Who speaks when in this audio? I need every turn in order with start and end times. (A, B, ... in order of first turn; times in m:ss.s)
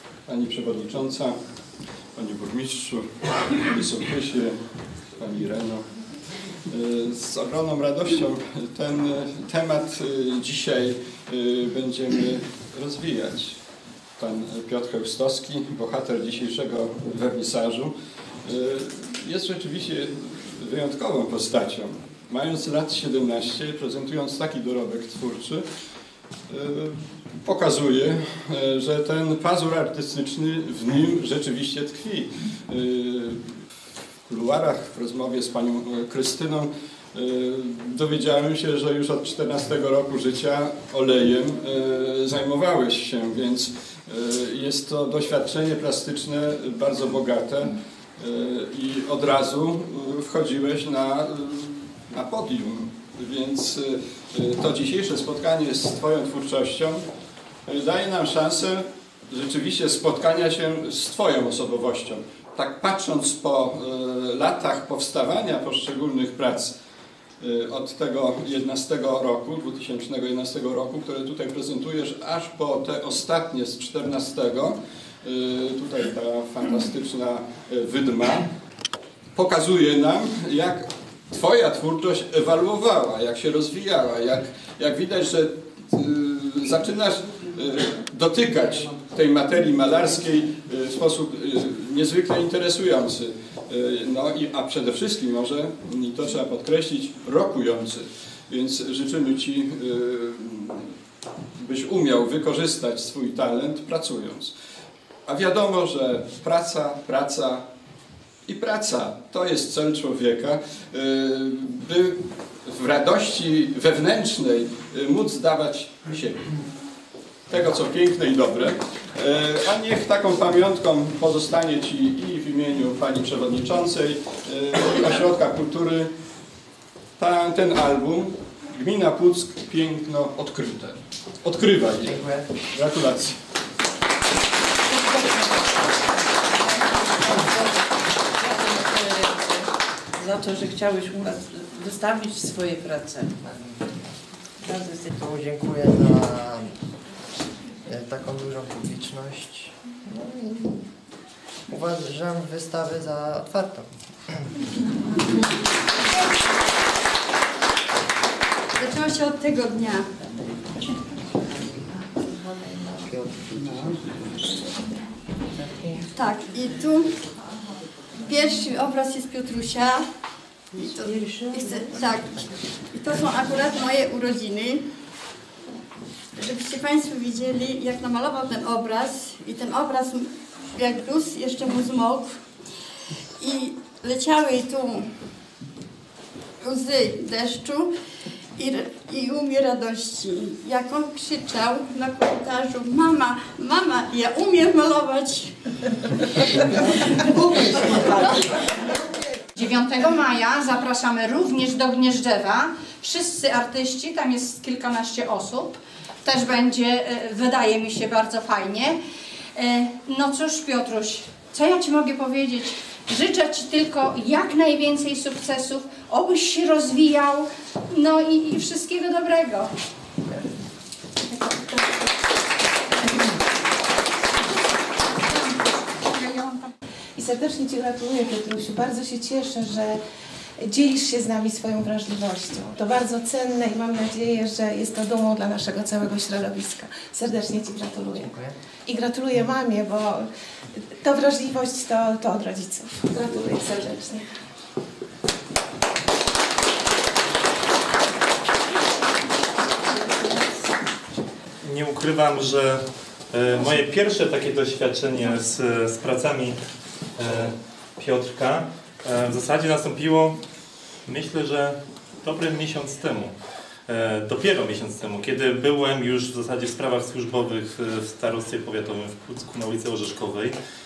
0:00.3-0:01.3 A
0:02.1-0:04.6 A
0:05.2-0:05.8 A
0:06.7-0:13.6 A
0:14.2-0:25.6 A
0:26.5-0:33.5 A
0:34.3-0:57.0 A
0:57.6-1:06.7 A
1:07.4-1:18.5 A
1:19.3-1:40.9 A
1:41.6-1:44.5 A
1:45.2-1:47.6 A
1:48.4-1:56.5 A
1:57.5-2:06.1 A
2:07.2-2:13.4 A
2:12.1-2:12.5 B
2:15.0-2:15.5 C
2:17.2-2:17.8 C
2:18.4-2:19.7 C
2:20.2-2:23.3 C
2:24.7-2:25.0 C
2:25.1-2:26.7 B
2:27.9-2:30.8 B
2:31.7-2:33.9 B
2:38.8-2:40.1 D
2:41.4-2:44.0 B
2:45.7-2:46.0 B
2:46.1-2:47.1 D
2:48.2-2:50.0 D
2:50.7-2:54.8 D
2:56.4-3:02.4 D
3:03.4-3:05.1 D
3:06.6-3:07.9 D
3:08.6-3:15.5 D
3:16.6-3:18.3 D
3:19.6-3:29.0 E
3:29.6-3:39.7 E
3:41.3-3:41.7 E
3:45.2-3:46.7 E
3:47.2-3:50.0 F
3:50.6-3:58.3 F
3:58.1-3:58.5 B
3:58.9-4:04.2 F
4:11.6-4:16.6 G
4:17.2-4:20.4 G
4:21.0-4:23.3 G
4:23.9-4:30.5 G